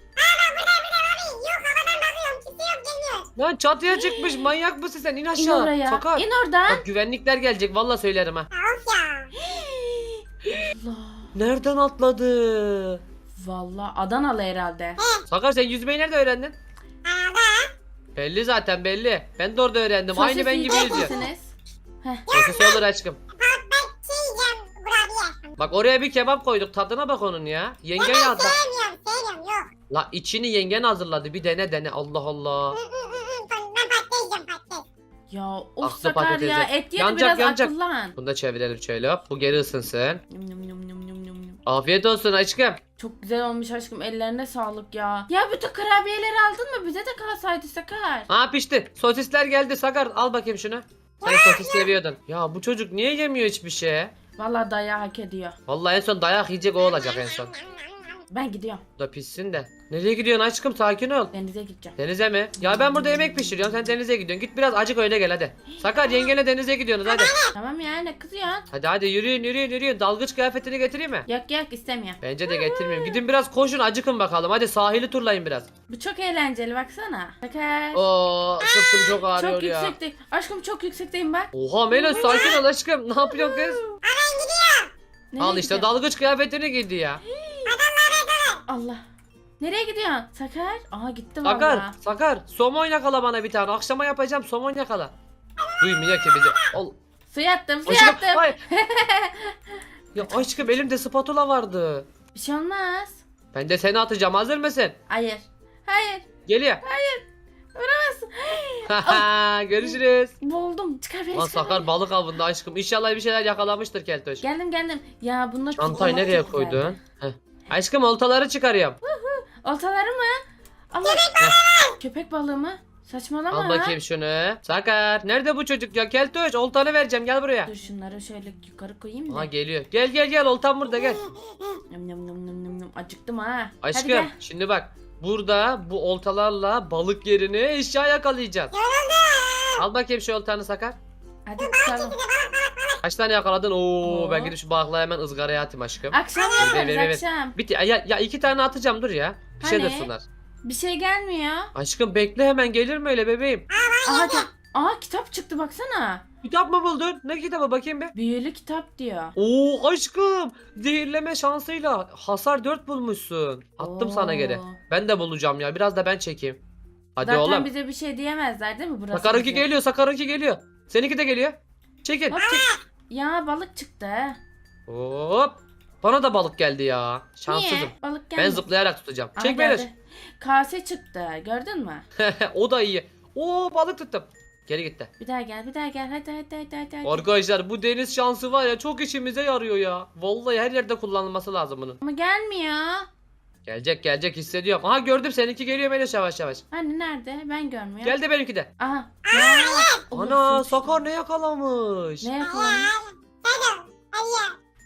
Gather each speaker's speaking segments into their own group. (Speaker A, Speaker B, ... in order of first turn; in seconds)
Speaker A: 0.2-3.3, 8.5-9.3, 17.1-17.7, 22.3-22.8, 23.4-25.5, 28.0-29.7, 32.8-34.8, 51.2-51.9, 56.9-57.8, 67.1-67.5, 84.0-84.9, 87.7-88.6, 121.0-122.0, 138.8-139.8, 141.6-142.9, 153.8-154.4, 199.3-200.0, 202.4-204.6
Speaker B: 3.4-8.5, 11.3-13.0, 15.3-16.6, 18.1-21.2, 22.3-23.2, 25.6-28.6, 29.9-32.8, 35.8-40.2, 41.7-42.8, 48.3-54.1, 55.7-57.5, 59.0-61.3, 62.0-67.3, 68.7-71.3, 72.2-75.7, 77.9-80.0, 81.5-83.8, 85.4-87.2, 91.4-95.1, 95.8-97.0, 97.9-98.6, 100.1-102.1, 103.5-105.0, 106.5-106.8, 108.9-110.3, 111.3-114.4, 115.8-119.0, 123.5-127.7, 129.3-131.2, 133.8-138.7, 139.8-141.0, 143.0-150.2, 151.8-153.7, 156.4-158.1, 159.4-166.6, 167.2-167.7, 169.1-172.4, 174.9-179.9, 182.2-185.1, 187.0-192.0, 193.7-196.6, 198.0-198.7, 200.1-202.3
Speaker C: 3.9-4.4, 5.4-6.8, 9.4-11.3, 13.3-15.0, 20.1-22.3, 35.3-38.1, 40.3-41.6, 43.0-48.3, 54.4-55.6, 58.3-58.8, 61.3-62.0, 62.6-63.6, 65.7-66.3, 67.5-68.7, 71.3-73.2, 75.9-78.0, 79.3-82.6, 83.4-84.0, 85.3-85.9, 87.3-87.8, 88.7-89.0, 89.6-92.0, 97.3-99.8, 102.3-103.2, 105.1-106.3, 106.8-109.3, 109.8-111.9, 114.4-117.0, 119.0-121.3, 122.0-124.0, 127.7-129.5, 131.9-134.3, 141.5-142.2, 144.0-144.6, 146.1-147.6, 149.6-150.1, 150.6-151.7, 154.0-156.2, 158.2-159.4, 163.8-164.8, 167.2-169.7, 172.3-174.4, 177.5-178.7, 179.4-182.1, 185.2-187.2, 192.0-193.1, 196.7-198.2, 198.8-201.0, 202.2-203.0